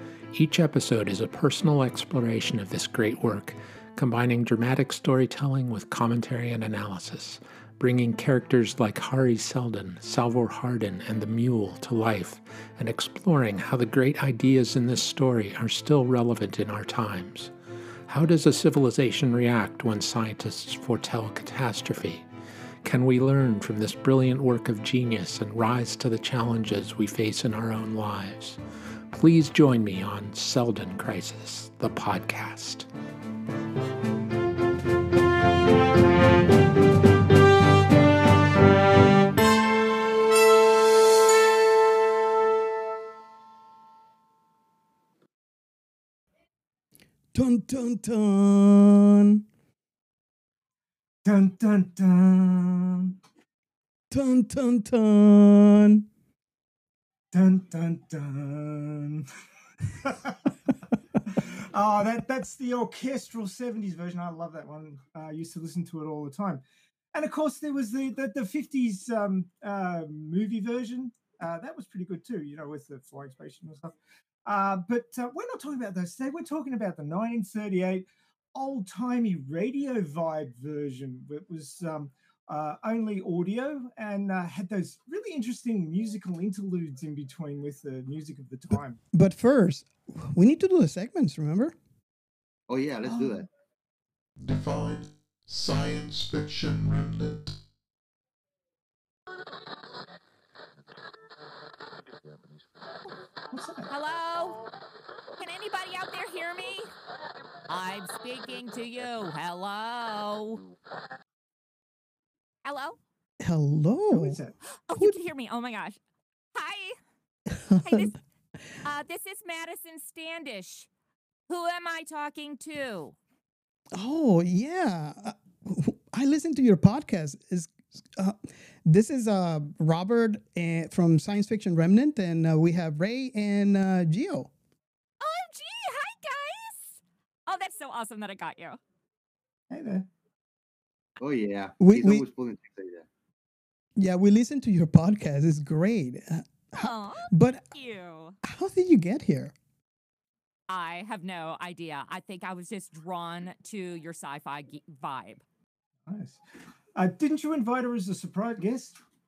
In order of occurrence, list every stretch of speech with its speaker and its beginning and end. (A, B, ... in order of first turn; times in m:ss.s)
0:00.3-0:17.5 A
0:18.1-0:22.3 A
0:22.8-0:32.9 A
0:47.3-0:49.4 B
0:51.2-0:53.2 C
0:54.1-0:56.0 B
0:57.3-0:59.3 C
1:00.0-1:00.4 C
1:01.3-1:06.6 C
1:07.1-1:29.0 C
1:29.1-1:31.8 B
1:32.7-1:33.5 D
1:33.1-1:33.4 B
1:34.4-1:37.6 E
1:43.5-1:43.9 C
1:43.9-1:44.6 F
1:45.4-1:46.9 F
1:47.7-1:50.6 F
1:52.6-1:53.0 F
1:53.4-1:54.4 B
1:54.1-1:54.6 C
1:54.7-1:56.0 F
1:56.6-1:57.0 F
1:57.5-1:58.1 B
1:57.8-1:58.2 F
1:58.8-2:00.9 F
2:01.5-2:03.2 F
2:03.9-2:14.5 B
2:15.2-2:18.8 F
2:19.7-2:20.1 C
2:21.2-2:23.1 D
2:21.8-2:22.2 B
2:24.0-2:27.7 B
2:26.8-2:28.4 F
2:28.4-2:29.6 B
2:30.7-2:35.4 F
2:36.1-2:36.4 C
2:37.0-2:39.0 C